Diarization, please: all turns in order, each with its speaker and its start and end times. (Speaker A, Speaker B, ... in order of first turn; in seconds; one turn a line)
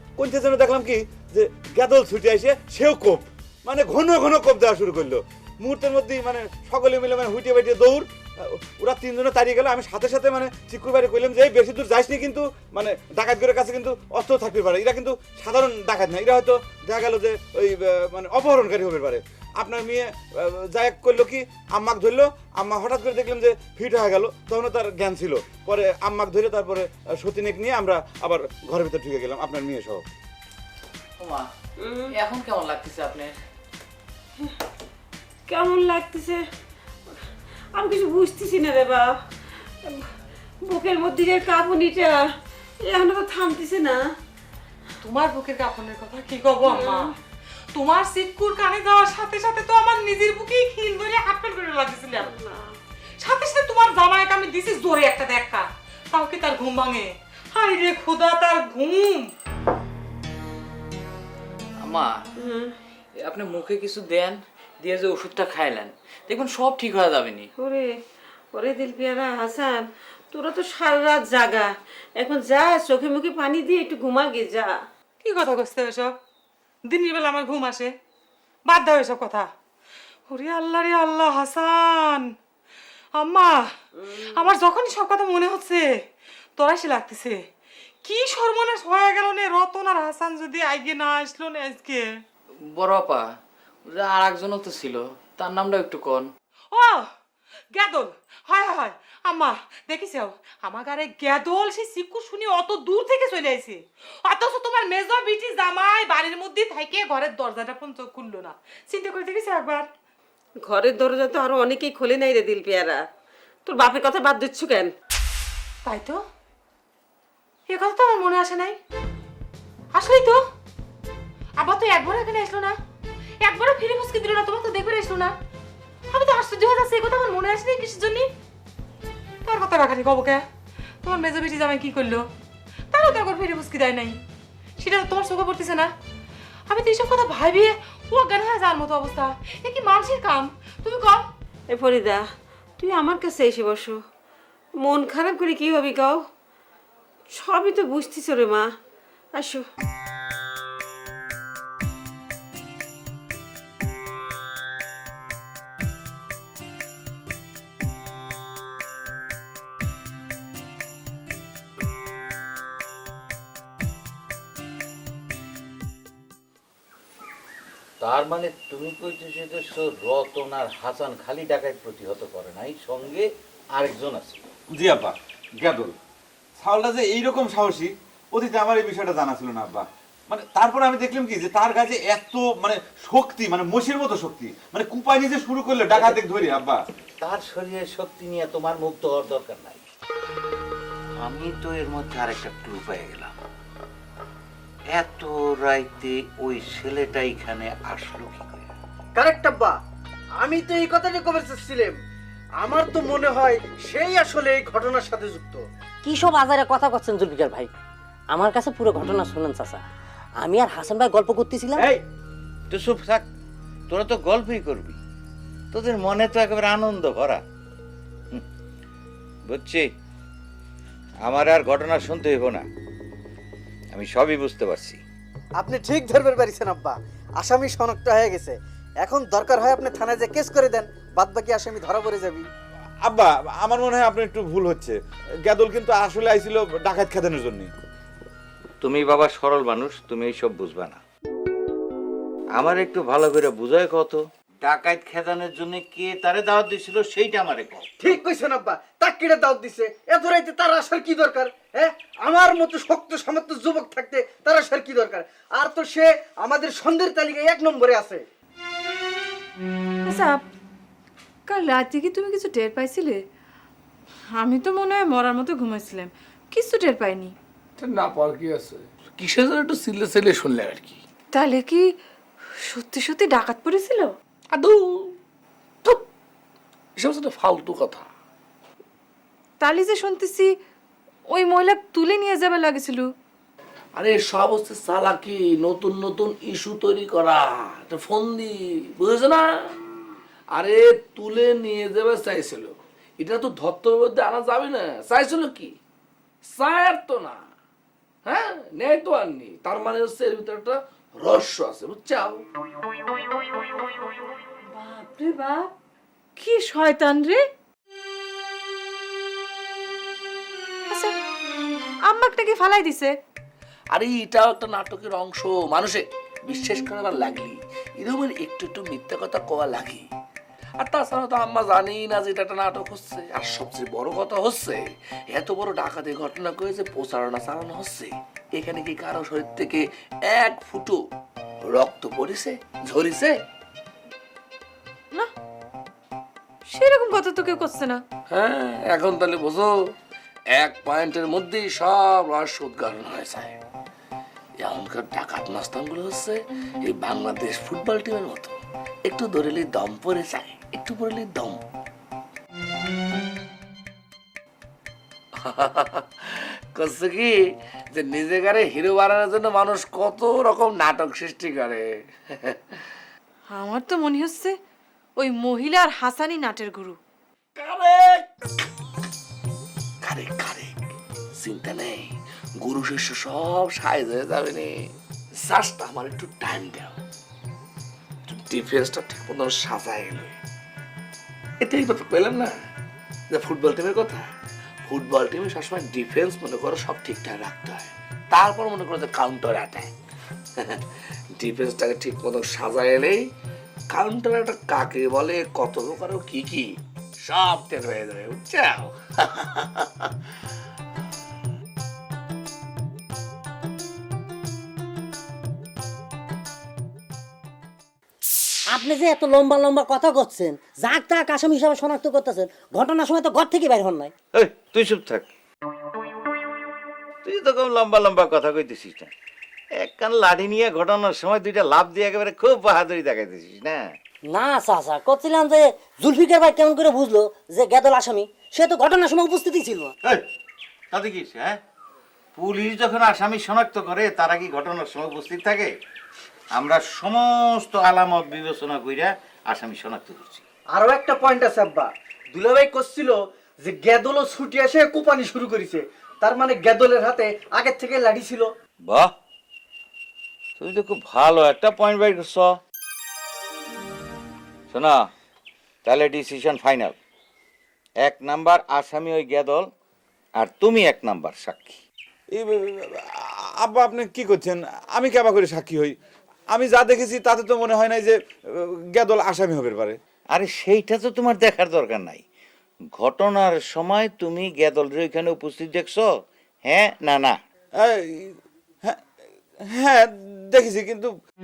Speaker A: 0.2-30.1
Speaker B: 31.2-31.4
Speaker C: 31.8-32.2
Speaker B: 32.3-33.3
Speaker C: 35.5-36.4
Speaker C: 37.7-39.2
Speaker C: 39.8-40.1
Speaker C: 40.6-42.2
Speaker C: 42.8-44.0
Speaker D: 45.0-47.1
Speaker C: 46.6-47.1
Speaker D: 47.7-52.3
Speaker C: 52.1-52.8
Speaker D: 53.2-59.3
Speaker B: 61.8-62.1
Speaker C: 62.4-62.7
Speaker B: 63.2-67.5
Speaker C: 67.6-68.0
Speaker C: 68.5-74.8
Speaker D: 75.2-76.1
Speaker D: 76.9-77.9
Speaker D: 78.7-79.5
Speaker D: 80.3-82.3
Speaker D: 83.2-83.7
Speaker C: 84.0-84.5
Speaker D: 84.2-85.9
Speaker D: 86.6-87.4
Speaker D: 88.0-92.0
Speaker B: 92.8-93.2
Speaker B: 93.9-96.3
Speaker D: 96.7-97.1
Speaker D: 97.7-109.9
Speaker C: 110.6-113.0
Speaker C: 113.7-114.9
Speaker D: 115.8-116.2
Speaker D: 117.7-118.8
Speaker D: 119.9-120.4
Speaker D: 121.6-122.8
Speaker D: 123.4-125.3
Speaker D: 126.1-128.3
Speaker D: 129.4-130.4
Speaker D: 131.0-132.3
Speaker D: 132.9-134.2
Speaker D: 134.8-135.9
Speaker D: 136.7-141.3
Speaker C: 141.7-144.0
Speaker C: 144.8-146.2
Speaker C: 147.3-148.7
Speaker C: 149.3-149.7
Speaker E: 168.0-173.2
Speaker E: 173.8-174.4
Speaker A: 174.7-175.9
Speaker A: 176.6-186.8
Speaker E: 185.9-186.2
Speaker E: 187.2-189.8
Speaker E: 191.2-193.3
Speaker E: 194.9-198.7
Speaker F: 199.1-199.8
Speaker F: 200.4-202.0
Speaker F: 202.6-205.6
Speaker G: 206.0-207.7
Speaker G: 208.3-209.8
Speaker G: 210.4-211.8
Speaker E: 212.7-213.2
Speaker E: 213.9-215.0
Speaker E: 215.7-217.4
Speaker E: 219.5-219.8
Speaker E: 221.2-222.6
Speaker E: 223.9-225.0
Speaker F: 225.6-232.5
Speaker A: 233.1-237.7
Speaker E: 238.8-241.0
Speaker E: 242.6-247.8
Speaker F: 248.0-258.2
Speaker H: 260.0-260.4
Speaker H: 261.5-263.2
Speaker H: 264.3-267.3
Speaker I: 268.2-271.0
Speaker H: 271.3-271.9
Speaker H: 272.6-274.1
Speaker I: 274.5-275.1
Speaker I: 276.9-278.1
Speaker H: 279.6-280.5
Speaker H: 281.3-283.1
Speaker I: 283.9-289.7
Speaker I: 290.5-295.8
Speaker I: 296.4-297.4
Speaker I: 298.2-302.4
Speaker H: 304.7-305.7
Speaker H: 306.4-307.4
Speaker H: 310.9-311.1
Speaker H: 312.1-313.1
Speaker I: 313.9-320.1
Speaker I: 320.8-331.0
Speaker I: 331.6-333.4
Speaker H: 336.7-338.0
Speaker I: 338.3-339.7
Speaker I: 340.5-343.6
Speaker I: 344.6-351.6
Speaker I: 355.4-357.3
Speaker I: 357.9-362.6
Speaker H: 363.5-364.6
Speaker H: 365.2-367.0
Speaker I: 367.6-368.3
Speaker I: 370.0-370.8
Speaker I: 371.4-377.0
Speaker I: 378.3-380.4
Speaker I: 381.6-382.5
Speaker I: 383.3-384.3
Speaker I: 384.8-389.9
Speaker I: 391.3-393.3
Speaker I: 393.9-396.7
Speaker I: 397.2-399.8
Speaker G: 408.7-414.1
Speaker E: 414.4-415.3
Speaker E: 417.2-419.1
Speaker E: 419.8-423.8
Speaker G: 424.3-429.9
Speaker E: 430.9-431.6
Speaker E: 432.4-435.7
Speaker E: 436.6-440.4
Speaker F: 440.7-448.5
Speaker E: 450.6-452.5
Speaker E: 454.7-455.1
Speaker E: 455.9-456.9
Speaker E: 458.0-459.7
Speaker E: 460.4-461.8
Speaker A: 462.3-465.9
Speaker A: 466.5-470.0
Speaker E: 470.3-472.2
Speaker E: 473.0-476.0
Speaker E: 476.7-477.4
Speaker A: 477.8-479.0
Speaker A: 479.7-481.1